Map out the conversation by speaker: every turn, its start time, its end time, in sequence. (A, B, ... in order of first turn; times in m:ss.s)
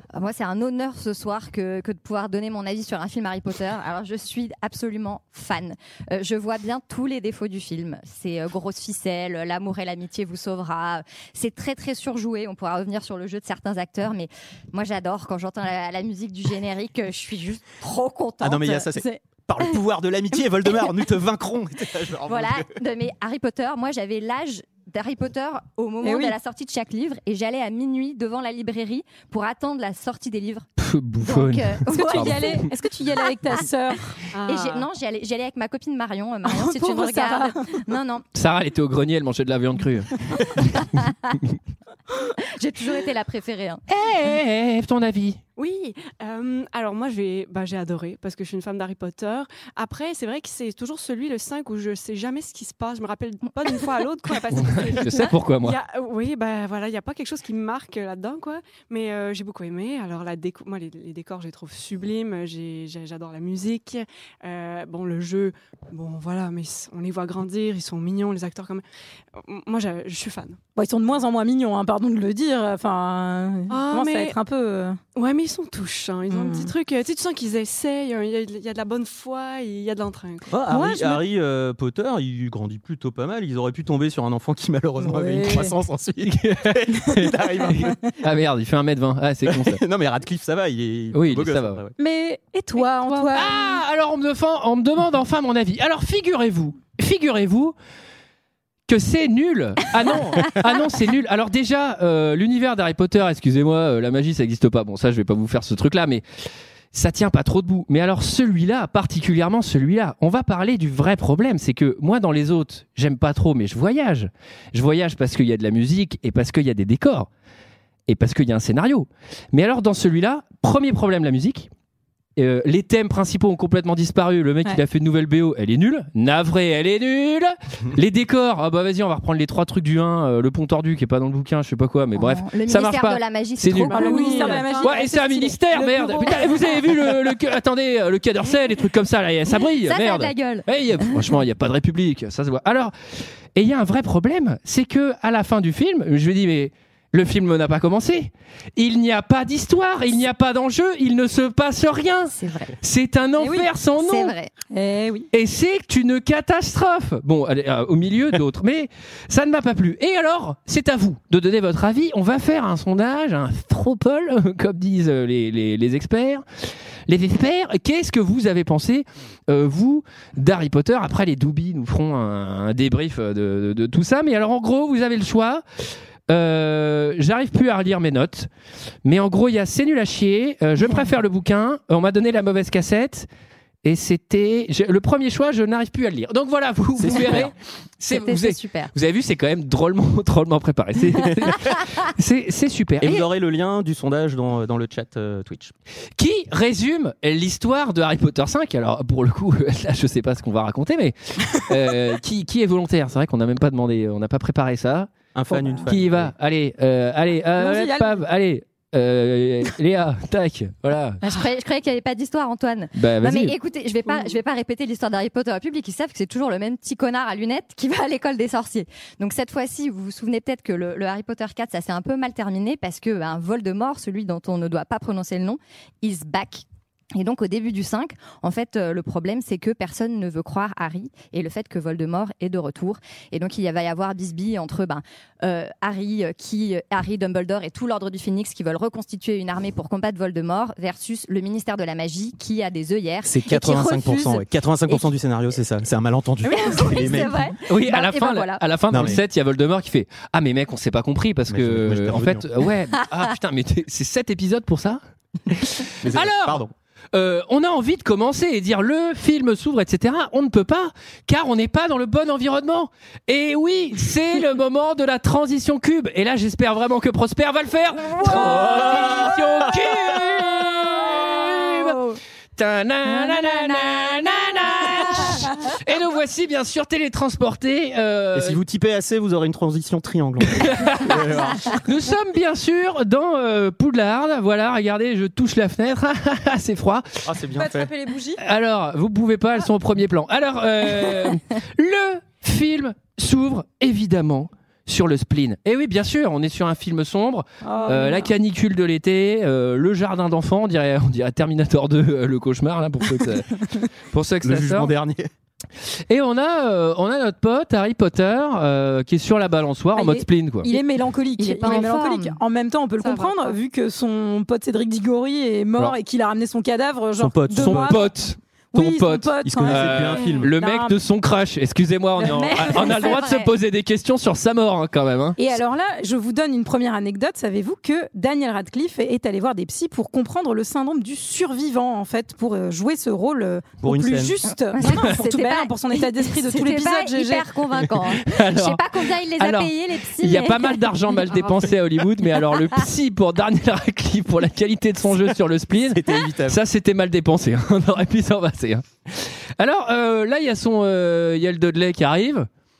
0:00.1-0:18.9 A
0:18.4-0:22.7 B
0:22.2-0:30.6 A
0:26.0-0:26.4 C
0:30.8-0:32.6 D
0:31.2-0:32.6 A
0:31.9-0:34.2 C
0:34.3-0:34.9 E
0:34.4-0:38.2 A
0:36.4-0:37.8 C
0:38.3-0:40.6 D
0:40.8-0:41.1 A
0:42.5-0:43.8 A
0:43.9-0:45.4 D
0:45.6-1:08.8 E
0:54.5-0:55.8 D
1:09.4-1:10.6 E
1:10.8-1:15.0 C
1:13.7-1:14.4 E
1:15.1-1:20.5 E
1:16.3-1:16.7 C
1:20.5-1:28.0 B
1:20.7-1:21.2 C
1:25.0-1:25.7 C
1:26.2-1:29.8 D
1:29.4-1:31.9 B
1:31.1-1:31.8 D
1:32.0-1:33.7 C
1:33.3-1:37.7 D
1:38.9-1:46.2 D
1:46.9-1:57.3 D
1:58.1-2:01.7 D
2:02.4-2:22.9 D
2:12.1-2:14.6 A
2:13.9-2:14.9 E
2:13.9-2:16.7 C
2:19.8-2:21.2 A
2:23.5-2:34.3 D
2:32.3-2:32.8 A
2:33.4-2:33.7 C
2:34.0-2:34.5 A
2:34.7-2:35.3 C
2:35.3-2:46.4 D
2:47.1-2:55.6 D
2:56.3-2:58.5 D
2:59.0-3:03.3 D
3:03.8-3:13.2 D
3:07.0-3:07.5 B
3:08.1-3:08.9 A
3:13.0-3:15.7 B
3:16.2-3:25.1 D
3:25.3-3:26.3 B
3:25.5-3:25.8 C
3:25.8-3:31.2 D
3:27.6-3:28.2 C
3:31.2-4:05.1 A
3:32.9-3:33.6 D
4:03.2-4:07.5 B
4:06.4-4:09.1 A
4:07.7-4:32.0 D
4:08.9-4:09.2 B
4:11.5-4:12.4 B
4:16.0-4:16.7 B
4:32.6-4:38.6 D
4:33.2-4:34.3 A
4:38.3-4:41.8 B
4:40.6-4:47.2 D
4:47.2-4:47.9 B
4:47.6-4:48.4 C
4:48.4-5:04.9 D
4:57.6-4:58.3 C
5:04.4-5:05.3 B
5:06.1-5:10.7 D
5:09.9-5:18.1 C
5:11.4-5:12.4 A
5:13.0-5:13.6 E
5:17.2-5:18.0 B
5:17.5-5:25.4 D
5:18.7-5:21.0 C
5:19.4-5:20.5 B
5:22.2-5:23.3 C
5:22.6-5:23.5 A
5:25.4-5:37.5 C
5:33.8-5:34.4 B
5:34.7-5:40.8 A
5:38.1-5:52.5 D
5:45.9-5:46.6 B